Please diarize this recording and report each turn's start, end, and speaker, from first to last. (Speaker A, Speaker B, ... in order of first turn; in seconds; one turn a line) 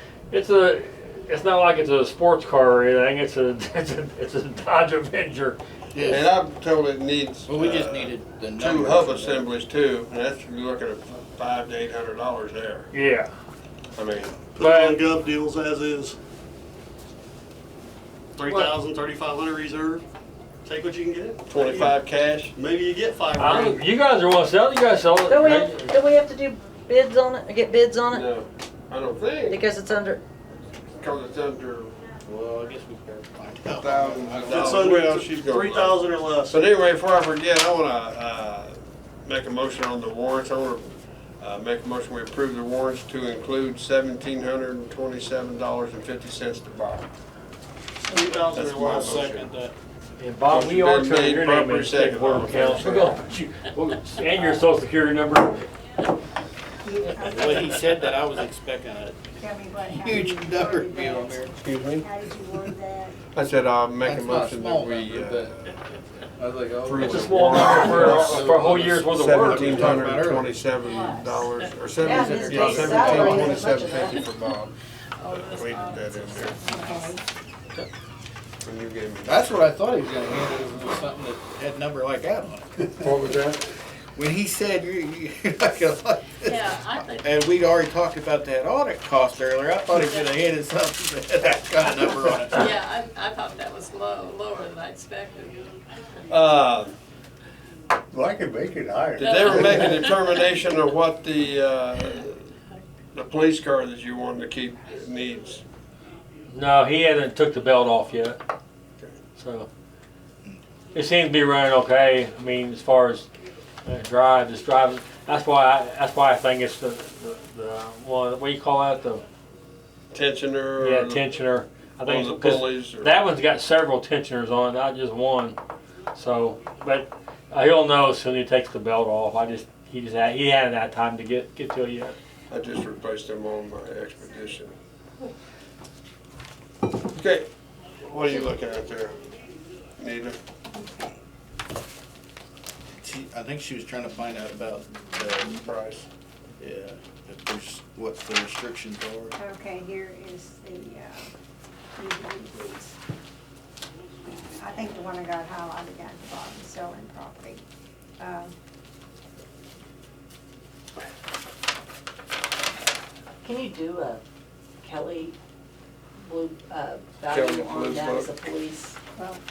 Speaker A: 0.3-5.6
Speaker B: 5.9-6.3
Speaker C: 6.0-12.9
Speaker B: 7.5-9.5
Speaker A: 12.9-13.3
Speaker C: 14.0-14.4
Speaker A: 14.6-15.0
Speaker D: 14.6-16.2
Speaker D: 18.4-20.0
Speaker A: 18.4-18.8
Speaker D: 20.6-21.9
Speaker C: 21.5-22.6
Speaker D: 22.6-23.8
Speaker A: 23.4-25.9
Speaker E: 25.3-28.3
Speaker C: 28.1-29.6
Speaker E: 29.5-30.2
Speaker C: 31.0-32.0
Speaker B: 32.3-35.0
Speaker C: 33.7-47.1
Speaker D: 34.6-36.5
Speaker B: 48.1-49.8
Speaker C: 48.1-49.5
Speaker A: 50.2-55.7
Speaker C: 50.5-53.2
Speaker F: 56.8-58.2
Speaker B: 57.2-59.3
Speaker F: 59.3-63.3
Speaker B: 59.9-61.5
Speaker C: 61.6-62.0
Speaker C: 63.3-65.5
Speaker B: 64.0-65.6
Speaker B: 66.4-70.5
Speaker C: 66.8-68.5
Speaker A: 67.0-70.0
Speaker C: 69.0-74.7
Speaker E: 70.9-71.2
Speaker E: 72.0-74.2
Speaker B: 72.0-73.7
Speaker G: 75.2-77.2
Speaker C: 75.3-76.6
Speaker F: 76.6-77.2
Speaker C: 78.6-79.5
Speaker B: 79.2-83.2
Speaker C: 83.0-83.6
Speaker B: 84.2-92.8
Speaker G: 86.5-87.3
Speaker G: 90.0-90.3
Speaker G: 92.3-95.8
Speaker C: 96.3-97.0
Speaker H: 98.1-100.1
Speaker C: 99.2-102.5
Speaker G: 99.2-100.4
Speaker C: 103.1-105.6
Speaker A: 106.5-108.4
Speaker A: 109.4-109.7
Speaker A: 110.9-113.3
Speaker A: 113.8-119.2
Speaker C: 120.1-121.3
Speaker A: 120.8-125.6
Speaker C: 122.0-123.2
Speaker A: 126.2-132.2
Speaker C: 132.5-134.7
Speaker C: 137.1-137.5
Speaker C: 138.1-139.2
Speaker C: 140.0-140.4
Speaker B: 143.0-145.7
Speaker C: 145.6-146.1
Speaker B: 146.6-149.3
Speaker F: 149.4-151.3
Speaker F: 152.0-153.0
Speaker F: 154.2-157.6
Speaker F: 158.2-158.5
Speaker E: 163.4-164.2
Speaker E: 164.8-165.3
Speaker E: 166.2-169.0
Speaker C: 167.2-168.3
Speaker F: 169.2-169.4